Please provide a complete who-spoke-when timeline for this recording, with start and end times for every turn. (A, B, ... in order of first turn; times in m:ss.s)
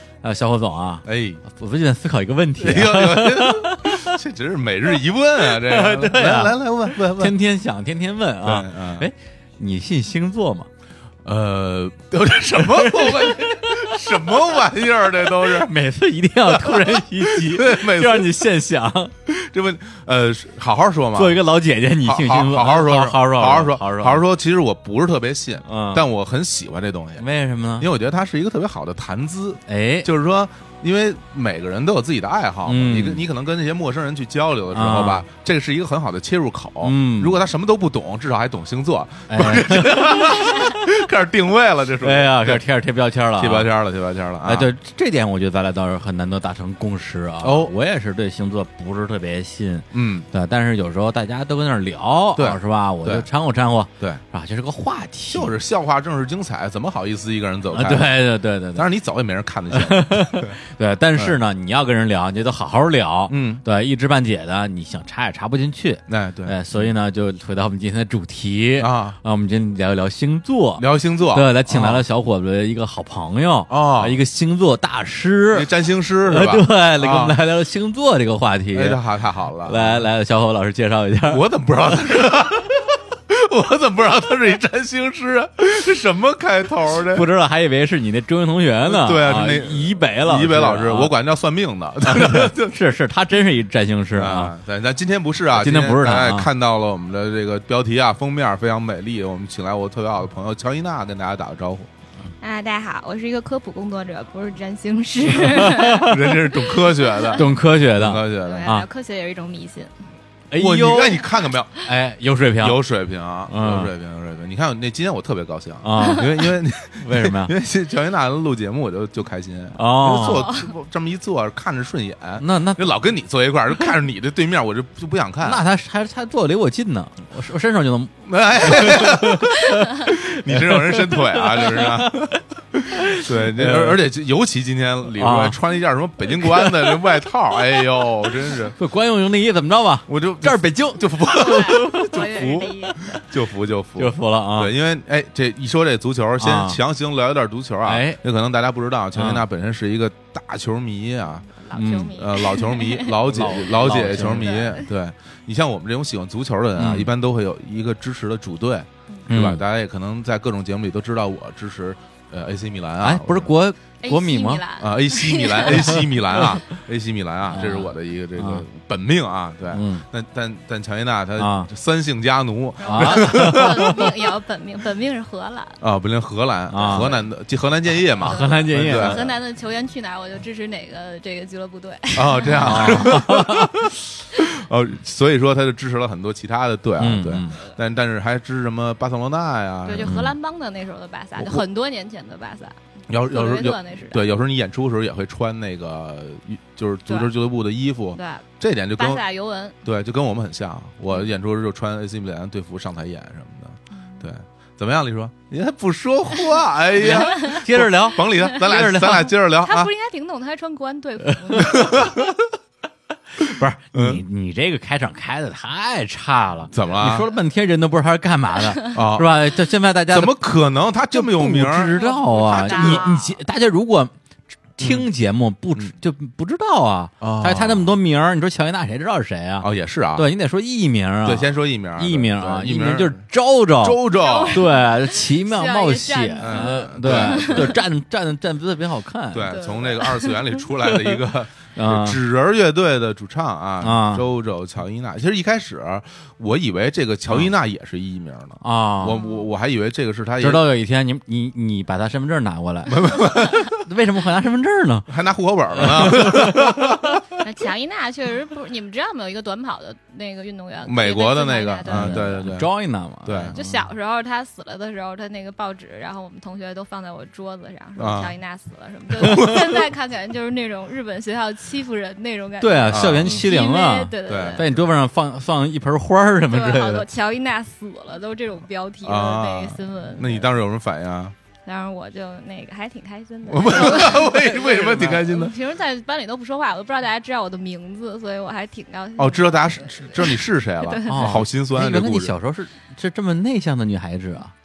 0:00.2-0:04.2 A
0:01.0-0:01.4 B
0:02.6-0:07.4 B
0:05.4-0:10.7 A
0:08.4-0:09.1 B
0:11.2-0:15.7 B
0:12.6-0:14.3 A
0:15.4-0:19.1 A
0:16.5-0:18.4 B
0:19.3-0:21.4 B
0:21.2-0:24.2 A
0:22.0-0:27.2 B
0:25.7-0:26.0 A
0:27.2-0:27.9 A
0:27.8-0:42.6 B
0:29.7-0:30.1 A
0:32.7-0:33.3 A
0:34.7-0:35.3 A
0:36.8-0:37.4 A
0:39.3-0:40.5 A
0:42.0-0:43.7 A
0:43.4-0:44.7 B
0:44.4-0:55.5 A
0:47.4-0:47.7 B
0:49.9-0:50.3 B
0:52.4-0:53.3 B
0:55.3-0:58.2 B
0:57.7-0:58.9 A
0:58.8-1:00.6 B
0:59.7-1:15.7 A
1:03.3-1:03.6 B
1:06.1-1:06.9 B
1:08.8-1:09.2 B
1:10.8-1:12.0 B
1:13.7-1:14.2 B
1:15.5-1:17.4 B
1:16.2-1:19.0 A
1:18.7-1:20.1 B
1:19.6-1:21.4 A
1:21.3-1:27.3 B
1:27.1-1:31.1 A
1:28.9-1:32.8 B
1:32.1-1:34.6 A
1:34.1-1:41.9 B
1:35.5-1:36.5 A
1:42.4-1:47.4 C
1:45.4-1:46.4 A
1:46.0-1:48.7 B
1:47.4-1:48.9 A
1:48.4-1:49.9 C
1:50.5-1:51.2 A
1:50.6-1:51.9 B
1:51.8-1:52.8 A
1:52.6-2:05.6 B
1:53.5-1:53.9 A
1:55.8-1:56.4 A
1:57.0-1:57.5 A
1:59.8-2:00.5 A
2:00.1-2:00.7 C
2:02.4-2:03.0 A
2:05.4-2:14.0 A
2:08.2-2:18.8 B
2:15.2-2:15.6 A
2:16.4-2:17.0 A
2:18.8-2:22.6 A
2:20.1-2:31.5 B
2:21.2-2:23.1 C
2:24.0-2:24.7 A
2:26.4-2:26.8 A
2:27.8-2:28.2 A
2:29.2-2:29.4 A
2:31.5-2:33.2 C
2:31.7-2:32.2 A
2:32.1-2:43.5 B
2:33.2-2:34.6 A
2:34.2-2:34.9 C
2:36.8-2:37.1 A
2:39.3-2:39.6 A
2:43.0-2:44.6 A
2:44.0-2:46.5 C
2:44.8-2:54.0 B
2:45.7-2:46.0 A
2:47.5-2:48.6 A
2:49.7-2:50.0 A
2:51.4-2:51.7 A
2:52.8-2:55.8 C
2:52.9-2:54.1 A
2:55.8-2:59.3 B
2:56.7-2:57.1 A
2:56.8-2:57.3 C
2:58.2-2:59.3 A
2:58.2-3:03.2 C
3:02.1-3:10.3 B
3:02.5-3:03.8 A
3:07.0-3:07.6 A
3:09.8-3:14.3 C
3:10.0-3:10.3 A
3:11.4-3:11.6 B
3:13.1-3:19.2 B
3:18.2-3:19.8 C
3:19.8-3:29.9 B
3:23.9-3:24.3 C
3:27.0-3:29.3 A
3:27.4-3:27.6 C
3:29.6-3:32.1 C
3:31.6-3:32.3 B
3:33.4-3:40.4 A
3:33.9-3:34.2 B
3:36.7-3:37.3 B
3:38.9-3:39.4 B
3:40.1-3:43.1 B
3:41.1-3:44.1 A
3:41.9-3:43.4 C
3:44.8-3:59.7 A
3:44.8-3:45.1 B
3:47.2-3:48.0 B
3:49.6-3:50.3 B
3:51.2-3:53.2 B
3:53.8-3:54.6 B
3:54.1-3:57.8 C
3:56.4-3:57.8 B
3:59.3-4:10.7 B
3:59.5-4:00.4 C
4:01.8-4:02.2 A
4:03.8-4:04.2 A
4:08.6-4:09.2 A
4:09.2-4:09.5 C
4:10.4-4:15.1 A
4:12.9-4:13.8 B
4:15.1-4:17.2 B
4:15.8-4:17.0 A
4:17.4-4:22.5 C
4:20.8-4:22.7 B
4:21.9-4:23.7 A
4:23.2-4:23.6 B
4:23.5-4:34.6 C
4:28.0-4:28.4 B
4:29.2-4:29.8 B
4:32.6-4:37.1 A
4:32.9-4:33.5 B
4:34.2-4:34.8 B
4:36.5-4:40.5 C
4:39.0-4:41.4 B
4:41.7-4:51.4 C
4:43.5-4:45.6 B
4:49.2-4:52.4 B
4:51.1-4:54.5 A